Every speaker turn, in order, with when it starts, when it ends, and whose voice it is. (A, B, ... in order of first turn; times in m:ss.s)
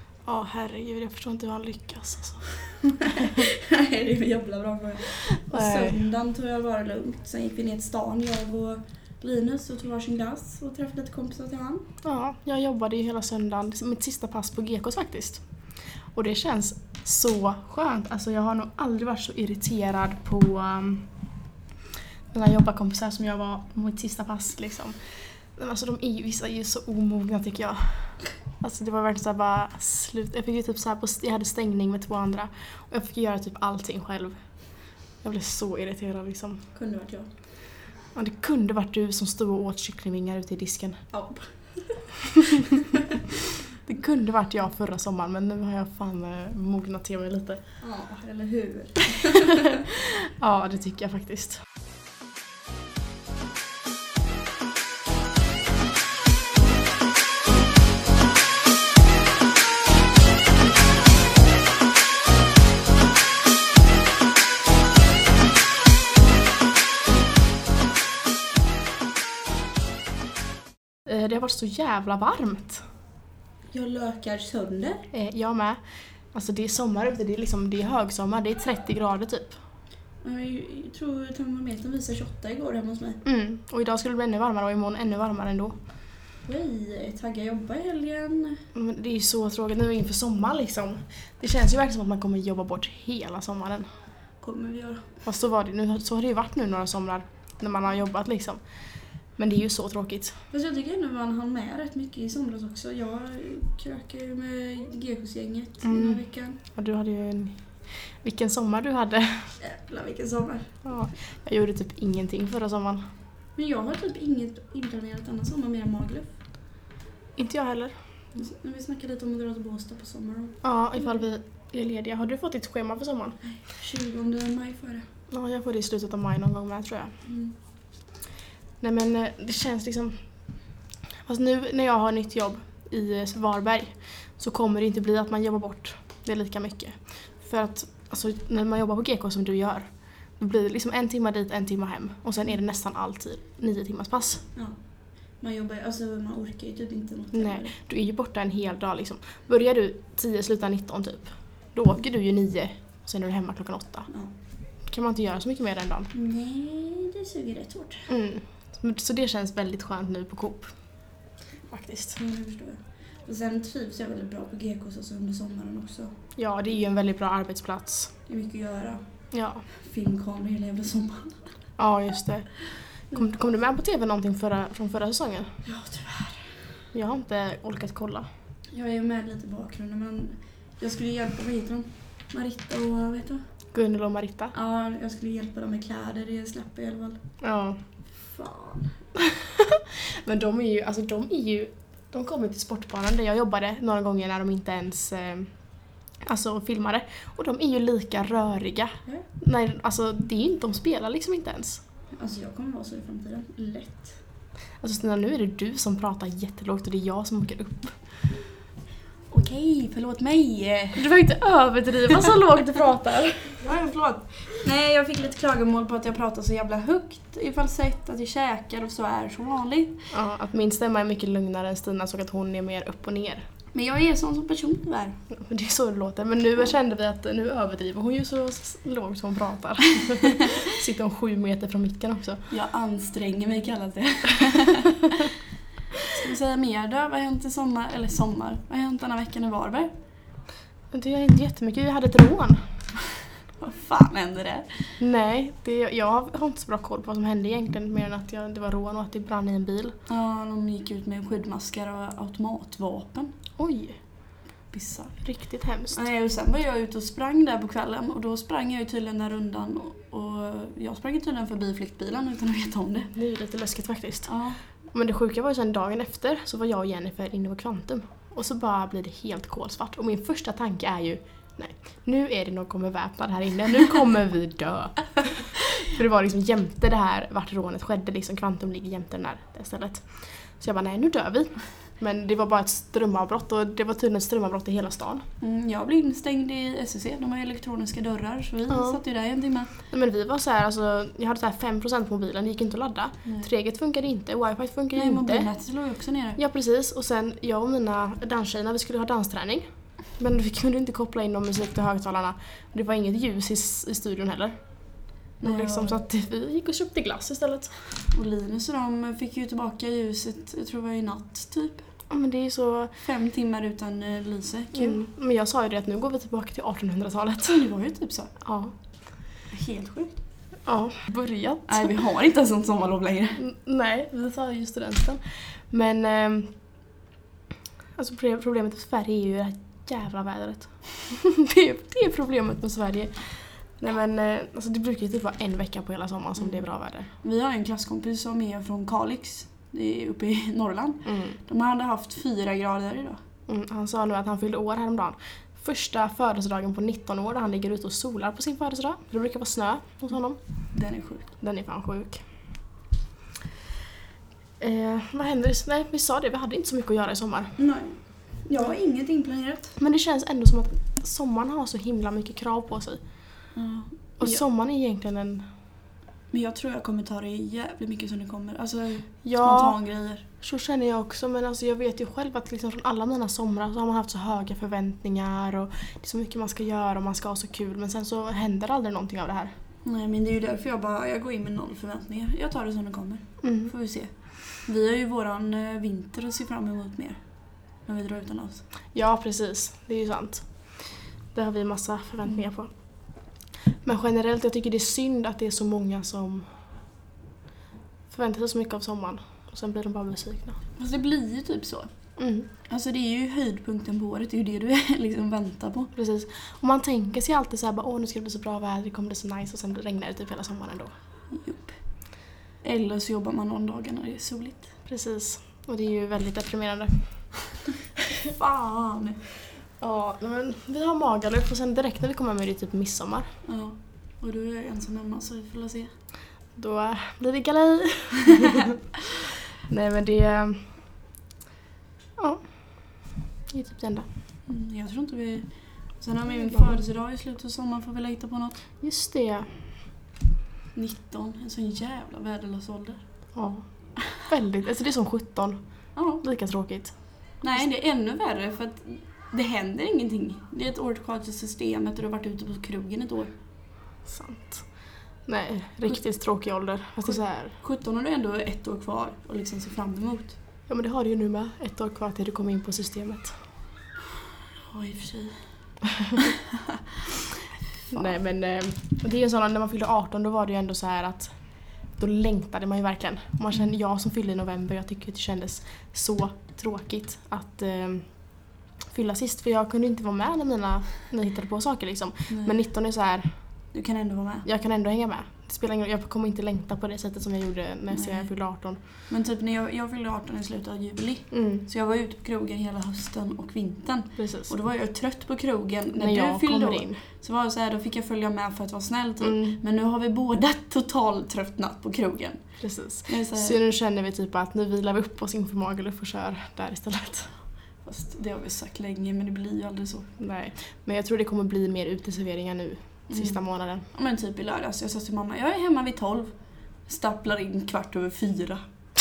0:00.2-0:02.4 A
0:02.6-0:11.9 B
0:05.2-0:06.0 A
0:12.0-0:15.4 A
0:16.1-0:21.1 A
0:22.3-0:25.0 A
0:25.6-0:34.4 A
0:35.2-0:36.6 A
0:36.7-0:37.3 B
0:38.1-0:41.0 A
0:41.1-0:42.0 B
0:42.3-0:42.8 A
0:43.8-0:47.6 A
0:47.8-0:49.8 B
0:49.6-0:51.6 A
1:11.0-1:12.8 A
1:13.7-1:15.1 B
1:15.1-1:15.8 A
1:16.3-1:19.6 A
1:20.2-1:23.2 B
1:23.2-1:25.7 A
1:26.4-1:28.6 B
1:28.7-1:33.9 A
1:34.4-1:35.1 B
1:35.2-1:38.6 A
1:39.4-1:40.4 A
1:40.5-1:46.6 B
1:45.8-1:47.6 A
1:48.2-1:49.5 A
1:49.6-1:50.7 B
1:50.8-1:53.1 A
1:53.6-1:56.3 B
1:57.4-1:57.9 A
1:58.3-2:01.2 B
2:00.6-2:03.4 A
2:03.6-2:05.0 B
2:05.3-2:07.1 A
2:07.2-2:07.5 B
2:08.8-2:10.2 A
2:11.2-2:24.4 A
2:25.4-2:27.7 B
2:27.3-2:34.1 A
2:34.8-2:36.1 A
2:36.1-2:38.1 B
2:38.1-2:40.7 A
2:41.7-2:42.2 A
2:42.2-2:46.1 B
2:46.4-2:48.1 A
2:48.3-2:49.0 B
2:49.3-2:49.6 A
2:49.7-2:51.5 B
2:51.8-2:52.6 A
2:53.1-2:55.5 A
2:55.6-2:56.6 B
2:56.9-2:58.3 A
2:58.7-3:03.4 B
3:03.7-3:04.5 A
3:04.5-3:07.2 B
3:07.4-3:07.8 A
3:08.2-3:08.9 B
3:09.2-3:15.5 A
3:16.2-3:21.8 A
3:22.1-3:24.2 B
3:24.8-3:28.0 A
3:29.3-3:31.1 B
3:31.0-3:33.6 A
3:33.6-3:40.0 B
3:40.1-3:43.4 A
3:43.7-3:45.2 B
3:45.3-3:52.4 A
3:52.5-3:55.2 B
3:56.1-3:59.9 B
4:00.9-4:02.6 A
4:03.6-4:04.9 B
4:05.0-4:10.0 A
4:10.1-4:13.3 B
4:13.6-4:14.0 A
4:14.7-4:15.2 B
4:15.2-4:16.0 A
4:15.9-4:23.1 B
4:23.1-4:24.3 A
4:24.2-4:24.6 B
4:24.9-4:45.2 A
4:45.4-4:49.7 B
4:48.7-4:49.0 A
4:49.9-4:55.5 A
4:54.9-4:56.4 B
4:56.4-5:04.5 A
5:05.4-5:06.0 B
5:05.4-5:07.7 A
5:08.1-5:11.8 B
5:12.1-5:12.9 A
5:13.0-5:15.0 B
5:14.7-5:17.6 A
5:17.5-5:18.3 B
5:18.4-5:18.7 A
5:19.5-5:20.1 B
5:20.6-5:21.9 A
5:21.7-5:23.4 B
5:23.4-5:26.5 A
5:28.0-5:37.1 A
5:36.4-5:36.6 B
5:37.2-5:43.2 B
5:41.0-5:41.4 A
5:43.5-5:50.4 A
5:50.7-5:51.3 B
5:51.4-5:52.2 A
5:54.6-5:57.6 A
5:57.6-5:59.8 B
5:59.8-6:03.0 A
6:03.5-6:04.4 B
6:04.2-6:05.5 A
6:06.3-6:10.2 B
6:09.2-6:09.8 A
6:10.4-6:19.5 A
6:19.8-6:27.2 B
6:23.4-6:23.7 A
6:27.8-6:28.6 B
6:28.9-6:30.7 A
6:31.3-6:32.7 A
6:33.8-6:36.5 A
6:38.1-6:40.6 A
6:40.8-6:41.9 B
6:42.2-6:42.5 A
6:42.6-6:45.9 B
6:45.9-6:50.9 A
6:51.3-6:51.8 B
6:52.6-6:54.7 B
6:54.8-6:57.4 A
6:58.3-6:59.2 B
6:59.8-7:03.3 A
7:03.4-7:05.9 B
7:06.6-7:08.8 A
7:09.6-7:10.8 A
7:12.2-7:14.1 A
7:14.5-7:18.6 B
7:16.5-7:16.8 A
7:18.8-7:19.7 A
7:20.7-7:23.0 B
7:23.3-7:25.6 A
7:25.9-7:26.2 B
7:26.2-7:27.0 A
7:27.4-7:33.3 B
7:34.0-7:34.7 A
7:35.2-7:37.6 A
7:37.0-7:40.4 B
7:40.7-7:43.4 A
7:44.6-7:45.4 B
7:47.9-7:51.4 A
7:51.9-7:58.3 A
7:58.9-8:03.3 A
8:02.3-8:02.6 B
8:03.7-8:04.4 B
8:04.4-8:08.8 A
8:07.9-8:08.3 B
8:09.1-8:22.4 B
8:11.3-8:11.6 A
8:14.2-8:14.5 A
8:15.9-8:17.0 A
8:19.2-8:19.6 A
8:22.6-8:27.3 A
8:23.1-8:23.6 B
8:27.8-8:30.1 B
8:30.2-8:33.8 A
8:33.1-8:33.4 B
8:33.9-8:36.3 B
8:36.8-8:38.6 B